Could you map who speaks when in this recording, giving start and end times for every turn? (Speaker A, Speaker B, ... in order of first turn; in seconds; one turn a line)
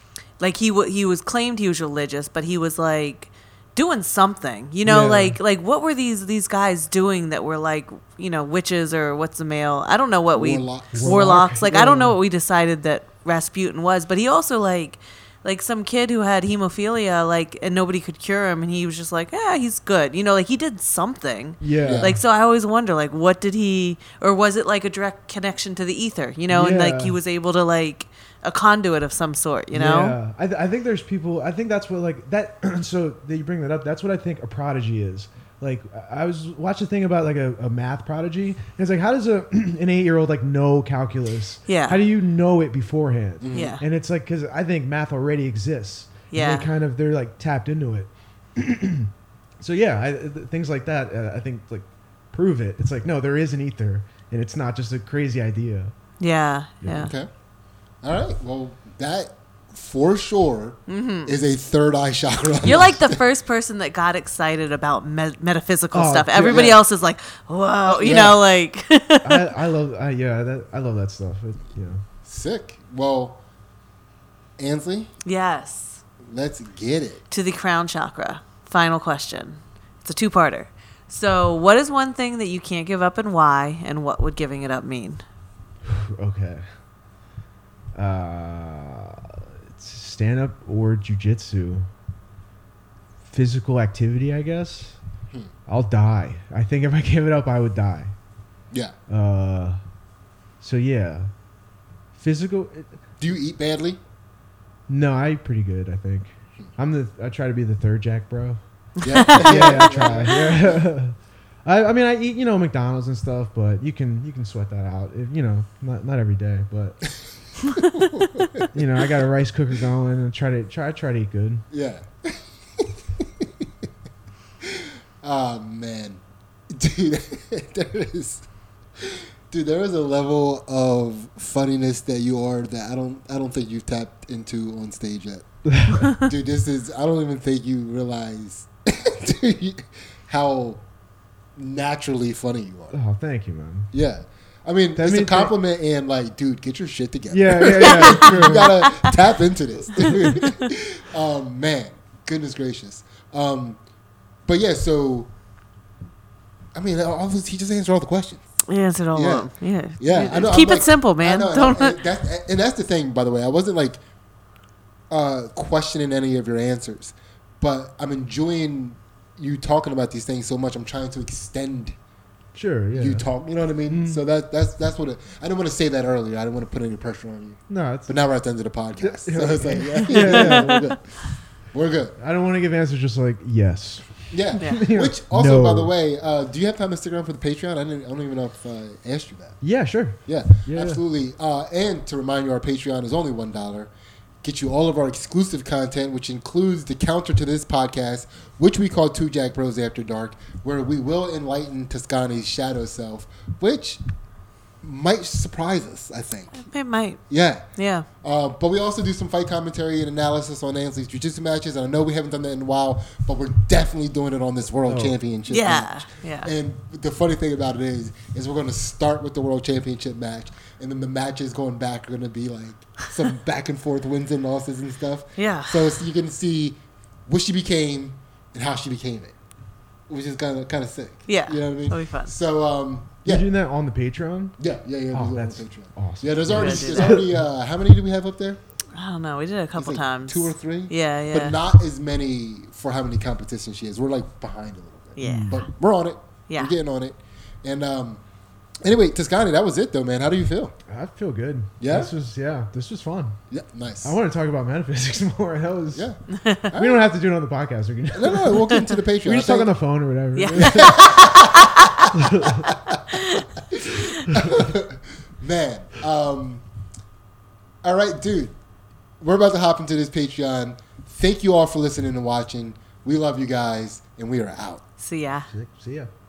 Speaker A: 0.4-30.2
Speaker B: 4.8-5.4
Speaker C: 10.3-11.3
Speaker B: 10.9-12.2
Speaker B: 21.6-22.2
Speaker C: 21.8-22.2
Speaker B: 26.5-27.1
Speaker B: 29.7-55.9
Speaker A: 41.7-42.0
Speaker C: 43.4-43.8
Speaker A: 43.5-43.8
Speaker A: 46.3-46.7
Speaker A: 56.2-57.1
Speaker B: 56.8-57.1
Speaker C: 56.9-57.3
Speaker C: 58.0-63.2
Speaker A: 60.9-61.3
Speaker A: 62.6-69.5
Speaker B: 65.9-66.8
Speaker C: 66.4-66.8
Speaker C: 67.9-68.4
Speaker B: 69.2-72.0
Speaker C: 72.2-73.4
Speaker C: 74.6-75.1
Speaker A: 75.2-76.0
Speaker C: 76.2-77.2
Speaker A: 77.3-85.2
Speaker B: 85.8-86.7
Speaker B: 87.9-91.9
Speaker B: 93.3-95.0
Speaker B: 95.7-98.1
Speaker B: 99.1-99.8
Speaker B: 100.6-101.3
Speaker B: 102.1-103.0
Speaker C: 103.2-104.0
Speaker B: 104.9-108.6
Speaker A: 109.0-110.3
Speaker C: 109.0-110.8
Speaker B: 109.2-117.1
Speaker C: 117.8-118.7
Speaker B: 118.7-121.7
Speaker C: 121.7-123.7
Speaker C: 124.6-128.4
Speaker C: 129.0-135.5
Speaker B: 135.7-136.1
Speaker C: 136.0-140.8
Speaker C: 141.6-142.9
Speaker B: 142.9-143.9
Speaker C: 143.9-153.8
Speaker B: 144.9-145.5
Speaker B: 147.3-148.7
Speaker A: 147.9-149.1
Speaker A: 149.9-150.7
Speaker C: 154.4-155.3
Speaker C: 156.7-158.4
Speaker A: 158.7-162.0
Speaker C: 159.1-164.0
Speaker C: 165.1-171.9
Speaker B: 172.5-173.3
Speaker C: 172.9-181.2
Speaker B: 173.9-174.2
Speaker B: 177.7-178.2
Speaker B: 179.0-180.9
Speaker A: 180.1-180.7
Speaker C: 181.7-182.1
Speaker B: 182.2-185.9
Speaker C: 184.3-189.6
Speaker A: 184.6-184.9
Speaker B: 189.6-191.0
Speaker C: 190.2-193.9
Speaker C: 194.4-204.0
Speaker C: 204.8-206.6
Speaker A: 206.5-207.2
Speaker C: 207.3-207.7
Speaker A: 207.8-208.1
Speaker C: 208.2-229.3
Speaker B: 214.9-215.2
Speaker A: 215.5-216.5
Speaker A: 225.4-225.9
Speaker C: 230.1-233.4
Speaker A: 231.3-232.3
Speaker B: 233.2-234.6
Speaker C: 234.6-238.6
Speaker B: 235.1-237.4
Speaker A: 236.5-237.2
Speaker A: 238.9-241.6
Speaker C: 239.8-248.2
Speaker A: 245.2-245.7
Speaker B: 245.2-245.6
Speaker C: 248.8-250.7
Speaker B: 250.9-253.4
Speaker C: 251.8-252.1
Speaker C: 253.5-254.2
Speaker B: 254.0-256.1
Speaker C: 255.9-257.1
Speaker A: 256.3-256.7
Speaker B: 256.7-260.9
Speaker C: 258.1-259.7
Speaker A: 260.3-262.1
Speaker C: 260.4-266.6
Speaker B: 262.1-262.7
Speaker A: 263.1-263.4
Speaker C: 267.8-268.5
Speaker C: 269.2-274.8
Speaker A: 275.0-275.5
Speaker B: 275.5-276.1